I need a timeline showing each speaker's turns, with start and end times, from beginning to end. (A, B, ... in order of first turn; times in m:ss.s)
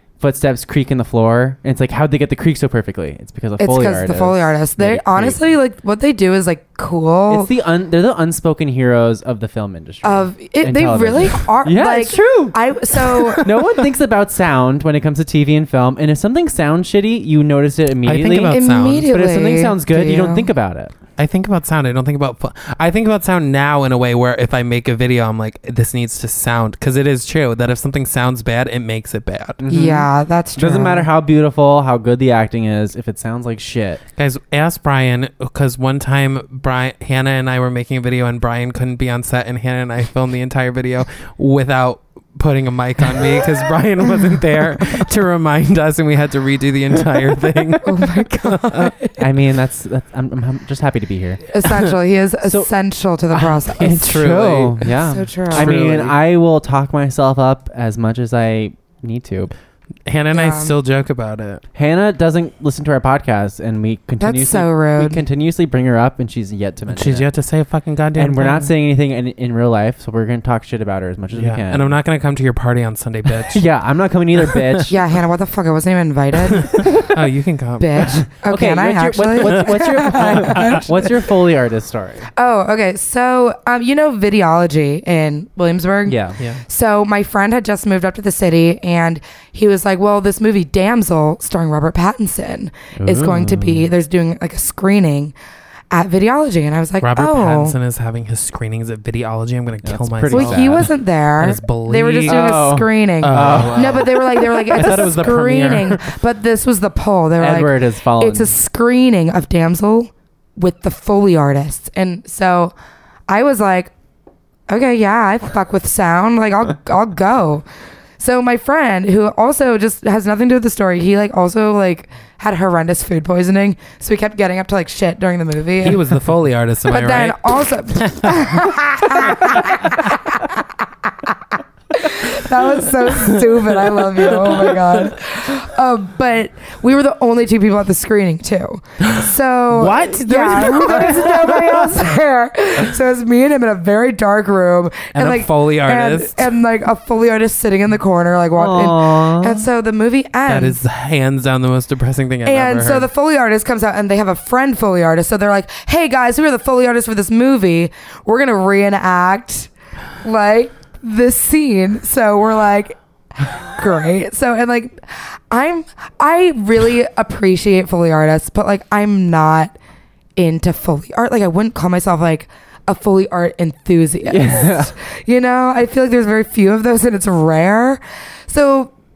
0:00.2-0:05.5 A
0:03.6-0:07.5 B
0:07.3-0:12.6 A
0:10.0-0:13.5 B
0:13.1-0:13.7 C
0:13.4-0:20.9 A
0:18.0-0:19.1 C
0:18.5-0:20.5 B
0:21.2-0:29.6 C
0:29.6-0:34.0 A
0:29.7-0:31.1 B
0:34.2-0:49.0 C
0:47.8-0:49.2 B
0:49.2-0:51.4 A
0:51.5-0:54.3 B
0:52.4-0:52.7 A
0:53.3-0:59.5 A
0:53.8-0:54.9 C
0:55.0-0:55.8 B
0:55.5-0:56.2 C
1:00.1-1:01.6 C
1:00.3-1:00.8 B
1:01.8-1:07.3 A
1:04.2-1:05.2 B
1:06.9-1:08.7 C
1:08.2-1:12.0 A
1:11.3-1:13.6 C
1:13.3-1:15.0 A
1:14.5-1:14.9 C
1:14.9-1:16.8 B
1:16.6-1:18.2 C
1:16.8-1:17.1 A
1:17.8-1:21.1 B
1:18.5-1:22.3 A
1:19.4-1:20.9 C
1:22.4-1:35.3 B
1:26.1-1:26.4 A
1:33.0-1:33.9 A
1:35.9-1:37.8 B
1:37.0-1:42.6 C
1:39.8-1:40.9 A
1:40.3-1:52.7 B
1:42.3-1:46.0 A
1:43.2-1:46.0 C
1:47.4-1:48.6 A
1:53.3-1:53.9 B
1:54.7-1:57.6 B
1:58.2-2:06.0 B
2:05.8-2:10.0 C
2:06.9-2:11.4 B
2:11.9-2:30.8 B
2:14.4-2:14.9 C
2:19.7-2:21.8 C
2:20.5-2:21.4 A
2:25.1-2:26.6 C
2:28.6-2:29.7 A
2:30.5-2:33.1 C
2:32.4-2:39.7 B
2:40.2-2:49.8 B
2:50.4-2:58.9 B
2:54.3-2:54.9 A